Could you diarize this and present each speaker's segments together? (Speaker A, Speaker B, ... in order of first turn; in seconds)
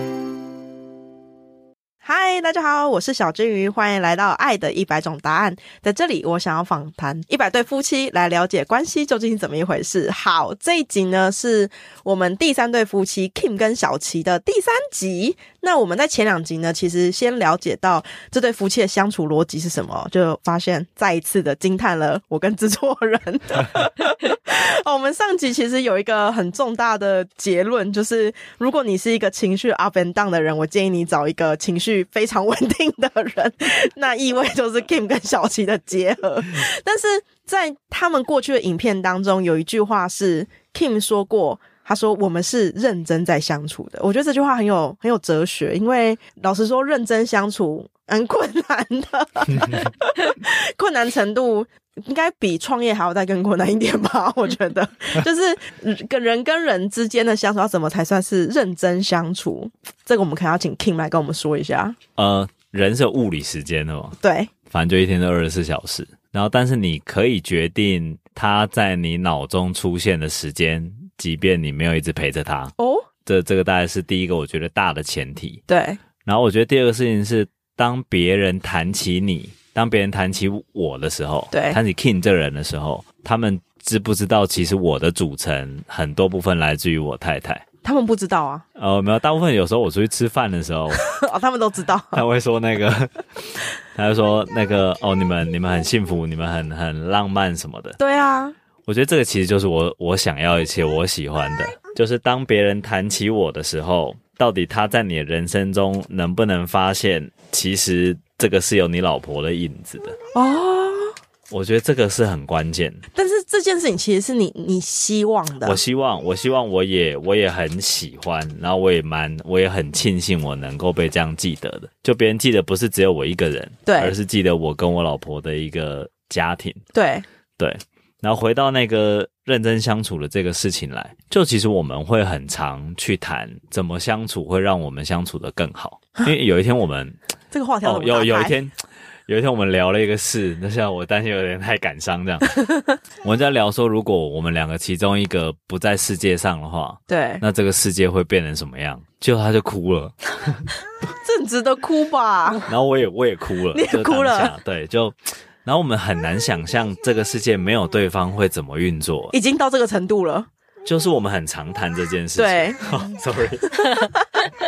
Speaker A: 2.0-62.0, 64.2-64.5, 72.8-73.1, 75.7-76.0, 81.5-81.8, 87.8-88.6, 91.1-92.2, 98.0-98.5, 110.3-111.1, 113.2-115.8, 123.9-124.2, 126.9-127.2, 137.5-138.6, 147.1-147.4, 151.2-152.6, 153.7-154.6, 159.3-160.5, 162.4-162.8
Speaker B: 62.2-64.2, 64.7-72.7, 73.3-75.6, 76.2-87.6, 88.8-91.0, 92.1-98.0, 98.9-110.2, 111.5-113.0, 115.6-126.8, 127.6-137.2, 137.8-138.8, 139.3-142.6, 143.2-150.7, 152.7-159.3, 160.8-163.9